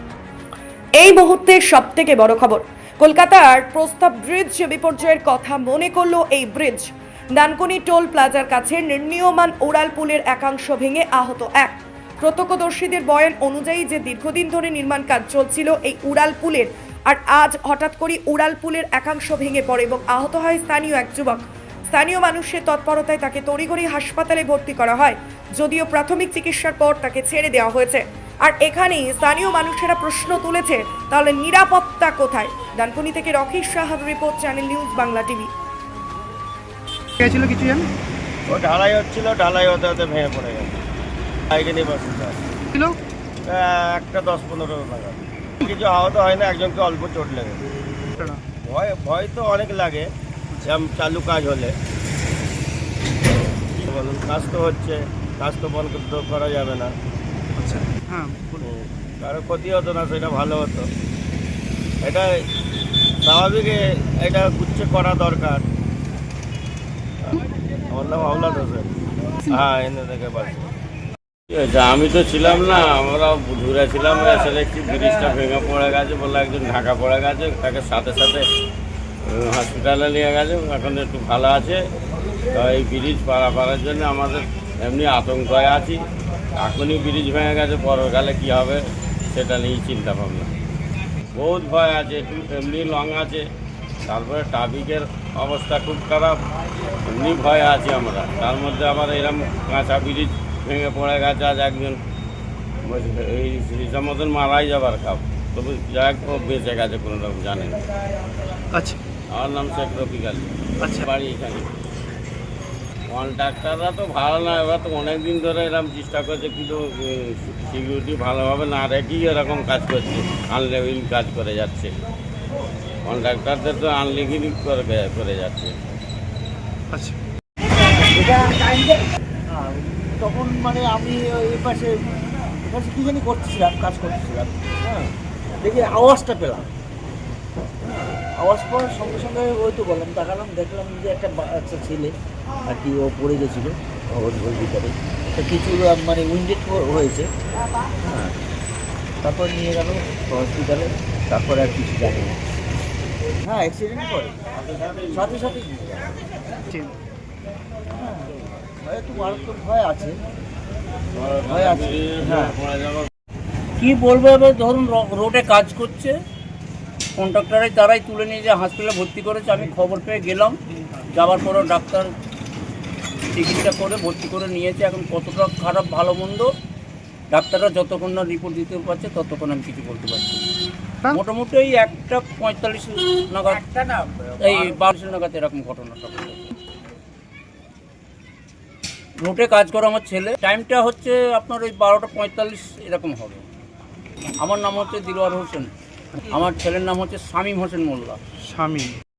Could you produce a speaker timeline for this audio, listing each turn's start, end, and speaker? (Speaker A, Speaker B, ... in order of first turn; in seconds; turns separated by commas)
Speaker A: 1.0-35.5, Speaker B: 37.2-37.9, Speaker C: 38.5-40.8, Speaker C: 41.5-42.4, Speaker C: 43.4-47.6, Speaker C: 48.6-50.1, Speaker C: 50.6-51.7, Speaker C: 53.7-56.9, Speaker B: 57.6-58.6, Speaker C: 58.6-60.9, Speaker C: 62.0-62.3, Speaker C: 63.2-65.6, Speaker C: 67.3-70.7, Speaker D: 71.5-78.4, Speaker D: 79.3-81.8, Speaker D: 82.5-86.0, Speaker D: 86.6-90.5, Speaker D: 91.3-93.4, Speaker D: 94.0-96.4, Speaker D: 97.0-102.0, Speaker D: 102.8-107.8, Speaker B: 108.7-109.0, Speaker D: 109.3-111.7, Speaker D: 113.1-121.9, Speaker D: 123.0-125.7, Speaker B: 126.9-127.2, Speaker E: 128.0-136.7, Speaker E: 138.1-142.1, Speaker E: 142.7-147.3, Speaker E: 148.0-148.3, Speaker E: 149.2-152.4, Speaker E: 153.4-154.4, Speaker D: 154.7-155.1, Speaker E: 155.1-156.2, Speaker E: 158.0-160.2, Speaker D: 161.1-163.1, Speaker E: 161.4-162.6, Speaker F: 163.8-166.1, Speaker F: 167.2-172.1, Speaker F: 173.3-176.5, Speaker F: 177.3-180.4, Speaker F: 181.1-186.5, Speaker F: 189.2-193.4, Speaker F: 194.4-195.7, Speaker F: 196.3-198.2, Speaker B: 198.4-199.0